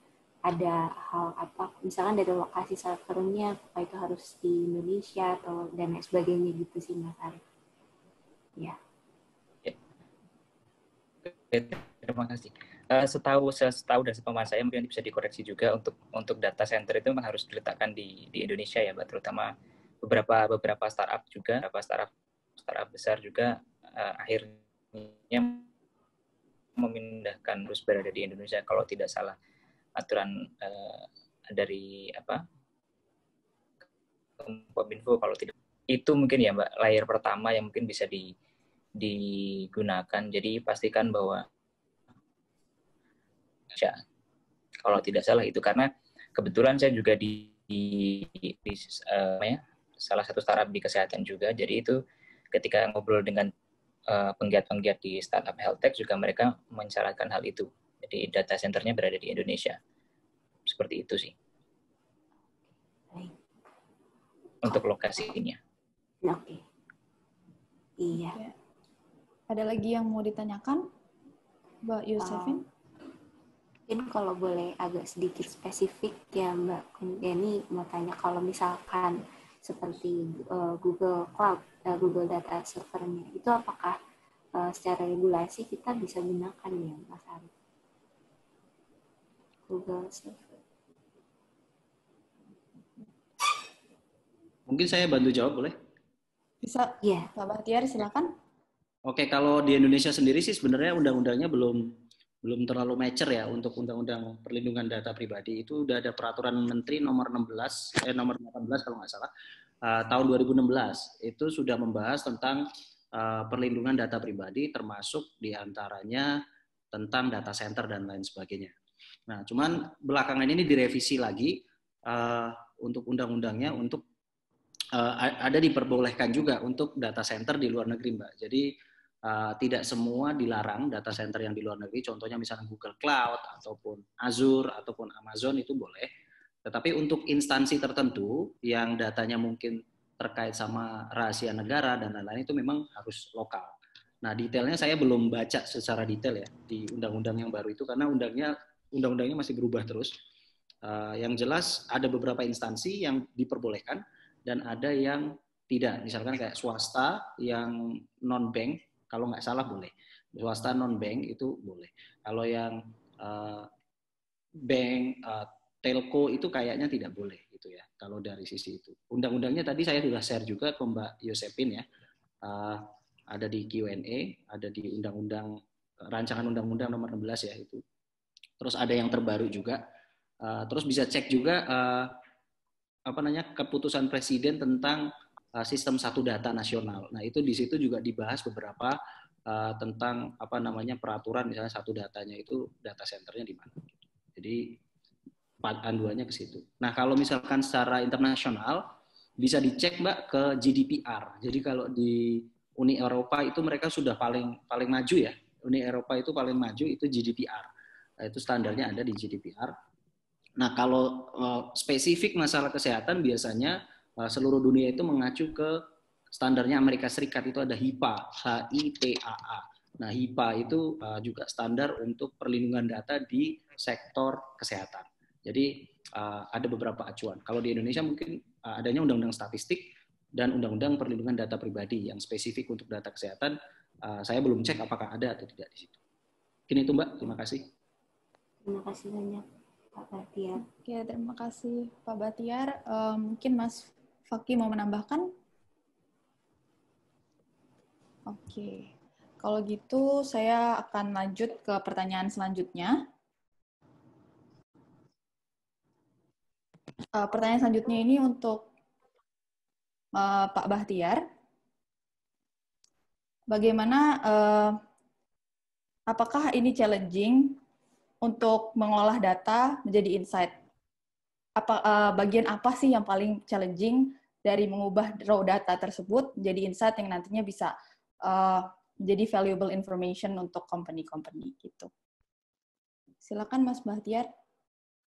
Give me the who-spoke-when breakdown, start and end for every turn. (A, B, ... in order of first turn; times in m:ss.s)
0:00.4-0:07.4 A
0:11.3-0:19.5 B
0:20.0-0:25.6 B
0:26.8-0:29.4 B
0:30.0-0:32.4 B
0:34.4-0:38.3 B
0:39.0-0:41.4 B
0:43.7-0:44.0 B
0:44.8-0:52.0 B
0:52.5-0:53.5 B
0:54.1-0:59.8 B
1:00.6-1:01.3 B
1:04.6-1:05.6 B
1:06.2-1:06.6 A
1:08.0-1:08.4 A
1:08.1-1:08.5 C
1:09.5-1:10.8 C
1:11.8-1:12.6 C
1:12.2-1:12.6 A
1:13.9-1:24.0 A
1:24.6-1:27.5 A
1:29.7-1:30.5 A
1:34.7-1:35.7 D
1:36.6-1:38.3 C
1:37.0-1:37.3 A
1:39.1-1:49.3 D
1:49.8-1:56.4 D
1:56.9-1:58.7 D
1:59.3-2:04.0 D
2:04.9-2:16.1 D
2:16.6-2:30.1 D
2:30.8-2:43.7 D
2:44.6-2:51.8 D
2:52.4-2:57.8 D
2:58.6-2:59.8 D
3:00.4-3:02.1 D
3:03.1-3:14.8 D
3:15.6-3:27.7 D
3:28.2-3:29.7 D
3:30.6-3:35.8 D
3:36.3-3:55.9 D
3:56.7-3:57.7 D
3:58.6-3:59.4 A
4:00.0-4:00.6 A
4:00.6-4:05.3 C
4:08.3-4:08.9 C
4:09.4-4:13.0 C
4:17.2-4:18.7 C
4:20.2-4:21.2 C
4:23.5-4:24.8 C
4:26.1-4:27.6 C
4:28.2-4:30.6 C
4:31.6-4:37.7 C
4:38.3-4:41.9 C
4:43.2-4:44.3 C